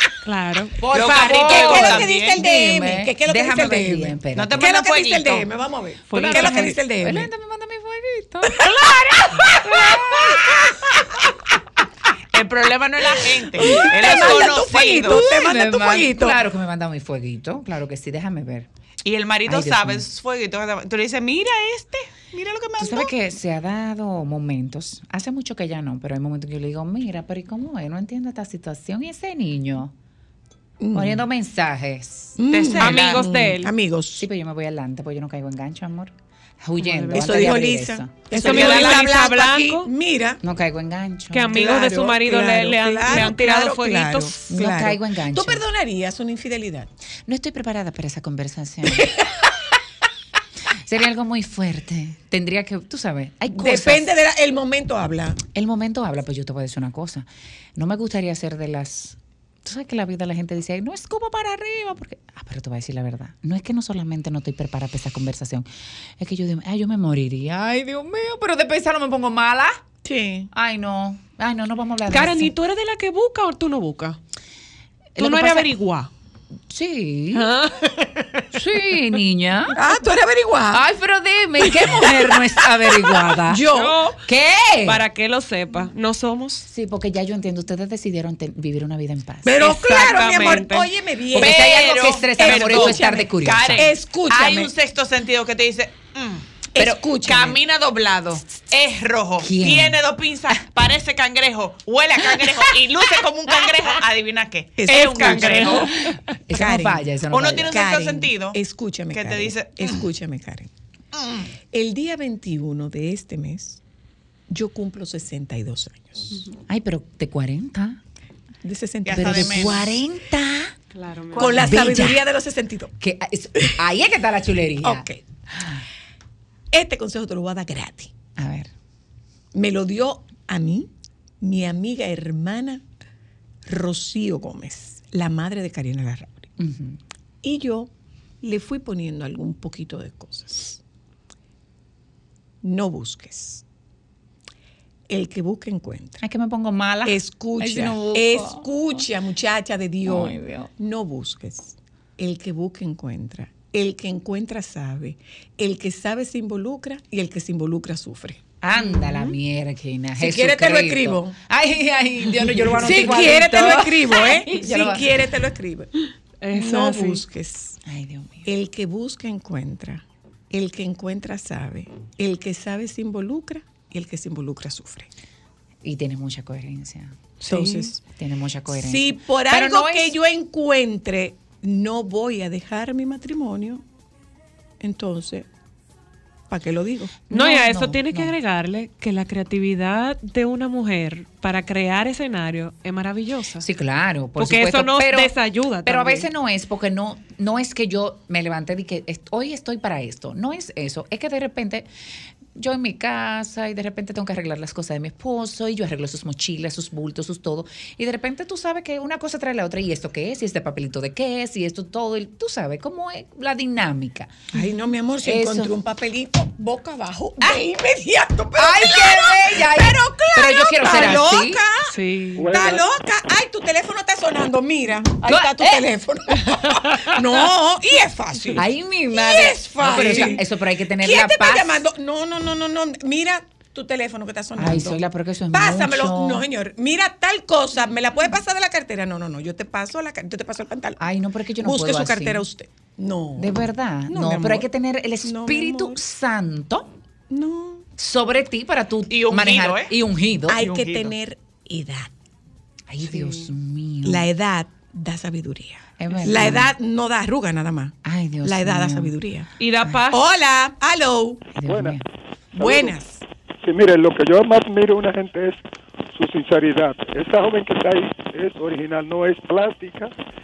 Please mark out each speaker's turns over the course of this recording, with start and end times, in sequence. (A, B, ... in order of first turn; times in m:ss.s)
0:00.2-0:00.8 A
0:00.8-0:04.7 B
0:00.9-0:02.4 C
0:00.9-0:07.3 D
0:04.4-0:05.5 C
0:06.1-0:06.7 A
0:06.1-0:08.6 B
0:08.4-0:11.3 D
0:09.6-0:10.5 A
0:12.3-0:15.2 C
0:13.5-0:16.4 D
0:15.0-0:18.7 B
0:19.0-0:23.1 C
0:19.4-0:20.0 B
0:22.8-0:29.9 B
0:30.8-0:31.2 D
0:30.9-0:32.4 B
0:32.4-0:34.2 D
0:32.5-0:33.3 C
0:32.7-0:33.7 A
0:34.2-0:39.0 B
0:36.8-0:37.4 A
0:37.1-0:40.4 D
0:38.3-0:39.9 A
0:40.4-0:41.7 B
0:41.3-0:44.3 A
0:41.5-0:46.9 D
0:44.5-0:45.6 B
0:47.3-0:49.1 B
0:48.9-0:49.3 D
0:50.8-0:54.1 B
0:53.5-0:55.4 D
0:55.5-1:05.7 B
1:06.2-1:09.8 B
1:10.0-1:10.5 D
1:10.5-1:12.5 B
1:12.1-1:14.2 A
1:15.1-1:15.7 B
1:15.2-1:16.1 A
1:16.7-1:17.5 B
1:17.3-1:18.1 A
1:18.5-1:19.8 B
1:19.7-1:20.8 D
1:20.7-1:23.7 B
1:21.6-1:22.4 D
1:23.2-1:24.1 D
1:23.7-1:24.2 A
1:24.2-1:25.0 B
1:24.8-1:26.7 A
1:26.6-1:29.6 B
1:29.4-1:34.7 D
1:29.6-1:30.9 A
1:31.3-1:33.9 B
1:31.3-1:45.9 C
1:36.7-1:37.6 D
1:39.4-1:40.0 B
1:44.8-1:46.0 D
1:46.5-1:47.8 B
1:46.5-1:47.1 D
1:47.3-1:48.6 C
1:47.6-1:50.7 D
1:49.1-1:50.0 C
1:51.1-1:51.4 C
1:51.7-1:53.8 D
1:54.5-1:56.4 D
1:56.7-1:58.0 B
1:58.6-1:59.8 D
1:59.0-2:00.0 C
1:59.1-2:00.7 B
2:00.9-2:01.7 A
2:01.3-2:02.9 D
2:01.4-2:02.2 B
2:03.0-2:05.8 B
2:04.8-2:05.2 D
2:06.7-2:08.1 D
2:08.4-2:08.7 B
2:09.5-2:12.8 D
2:13.6-2:16.5 D
2:16.6-2:17.0 B
2:17.4-2:17.9 D
2:18.4-2:20.8 D
2:22.6-2:23.6 D
2:25.1-2:26.2 D
2:26.2-2:28.7 B
2:27.0-2:38.4 D
2:30.0-2:30.7 B
2:38.6-2:45.0 B
2:38.8-2:39.3 A
2:40.2-2:41.4 D
2:42.7-2:45.9 D
2:42.8-2:43.3 A
2:46.4-2:47.2 A
2:46.5-2:47.8 D
2:47.8-2:48.5 B
2:48.4-2:55.1 D
2:55.8-2:57.2 B
2:57.4-2:57.9 A
2:57.4-2:58.0 D
2:58.1-3:00.2 B
2:58.7-3:03.8 D
3:04.8-3:05.5 D
3:06.5-3:07.2 D
3:07.3-3:08.3 B
3:07.3-3:13.6 A
3:13.6-3:21.9 B
3:14.4-3:16.3 A
3:22.6-3:34.3 B
3:34.5-3:50.5 D
3:35.2-3:35.7 B
3:38.6-3:41.6 B
3:41.9-3:42.8 A
3:42.4-3:42.8 E
3:45.2-3:45.8 B
3:48.5-3:51.9 B
3:49.9-3:50.4 A
3:51.0-4:01.0 D
3:54.6-3:56.4 B
4:01.0-4:02.4 B
4:01.6-4:04.7 D
4:03.4-4:06.9 B
4:05.2-4:06.0 D
4:07.3-4:07.8 D
4:08.0-4:10.7 B
4:09.1-4:09.9 C
4:10.5-4:12.1 D
4:10.6-4:11.1 C
4:12.9-4:14.3 B
4:13.1-4:13.5 A
4:14.0-4:19.5 D
4:16.0-4:16.7 B
4:18.0-4:19.1 B
4:19.6-4:20.2 A
4:20.1-4:21.5 D
4:21.5-4:22.0 B
4:21.6-4:22.0 E
4:22.5-4:23.0 E
4:22.6-4:23.2 D
4:23.6-4:25.6 E
4:26.1-4:30.1 E